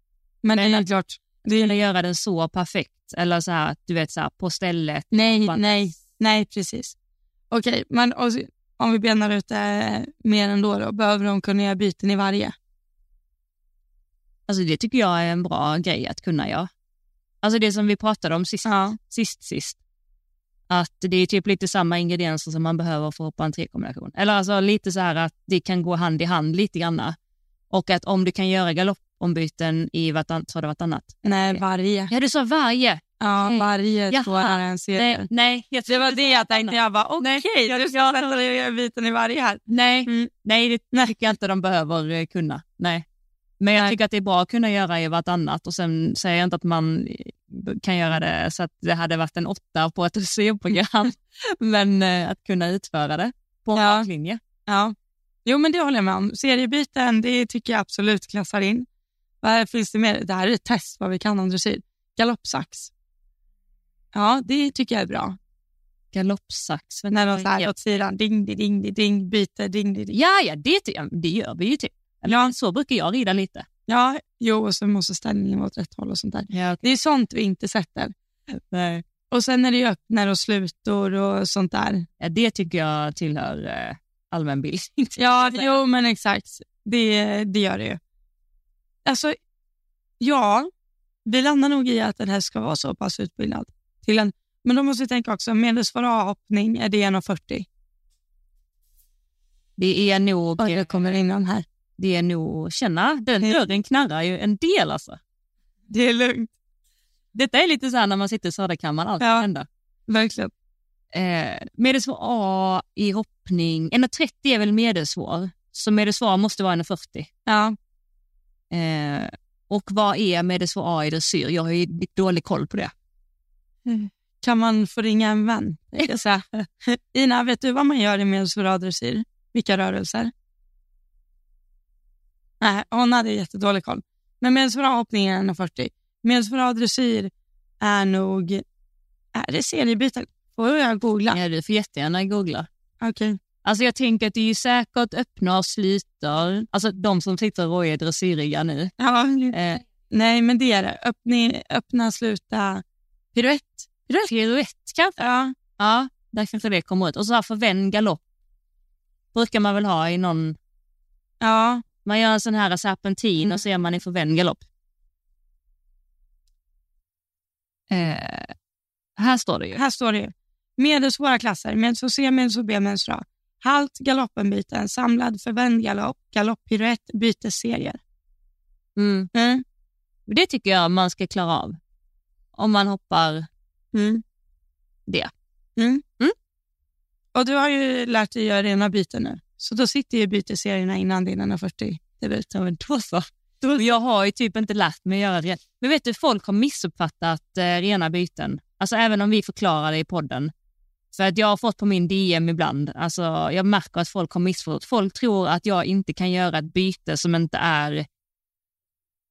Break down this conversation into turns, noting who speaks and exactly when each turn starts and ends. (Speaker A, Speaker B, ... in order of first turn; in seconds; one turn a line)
Speaker A: 0.4-1.8
Speaker B: 0.6-0.8
Speaker B: 1.5-5.6
Speaker A: 5.1-7.0
Speaker A: 7.5-12.5
Speaker B: 14.5-16.7
Speaker B: 17.4-19.8
Speaker A: 18.6-18.9
Speaker B: 20.7-27.1
Speaker B: 27.7-31.6
Speaker A: 31.2-32.1
Speaker B: 32.1-38.2
Speaker A: 33.2-35.3
Speaker A: 35.9-40.3
Speaker B: 39.7-43.0
Speaker B: 43.6-54.4
Speaker A: 53.8-54.1
Speaker A: 54.7-58.9
Speaker A: 59.4-62.9
Speaker A: 64.1-65.4
Speaker B: 66.1-67.7
Speaker A: 67.1-70.1
Speaker B: 70.1-73.7
Speaker A: 72.2-72.5
Speaker A: 73.9-78.1
Speaker B: 76.5-76.8
Speaker B: 78.7-79.0
Speaker A: 79.3-82.0
Speaker B: 82.2-85.8
Speaker A: 85.2-88.0
Speaker A: 89.0-89.3
Speaker A: 90.2-90.7
Speaker A: 91.2-97.7
Speaker B: 99.8-100.8
Speaker A: 100.6-101.6
Speaker B: 102.0-105.2
Speaker A: 105.9-106.5
Speaker B: 107.3-109.7
Speaker A: 109.2-109.5
Speaker A: 110.1-110.5
Speaker B: 111.1-117.3
Speaker A: 117.5-117.8
Speaker B: 118.7-122.9
Speaker A: 123.8-130.3
Speaker A: 132.6-138.6
Speaker A: 139.3-141.4
Speaker B: 141.3-142.7
Speaker A: 143.0-143.4
Speaker B: 143.6-148.9
Speaker A: 149.0-149.6
Speaker B: 149.5-149.8
Speaker A: 150.1-152.8
Speaker A: 153.3-154.3
Speaker B: 154.2-155.2
Speaker A: 155.2-155.5
Speaker B: 155.8-158.2
Speaker B: 159.3-160.6
Speaker A: 161.4-161.8
Speaker B: 162.0-164.6
Speaker B: 167.9-168.5
Speaker B: 169.2-169.8
Speaker A: 169.7-178.0
Speaker B: 178.9-179.3
Speaker A: 179.3-179.6
Speaker B: 180.3-181.8
Speaker B: 182.5-183.5
Speaker A: 183.9-184.2
Speaker A: 185.8-186.0
Speaker A: 187.3-192.5
Speaker B: 192.5-200.5
Speaker B: 201.1-208.1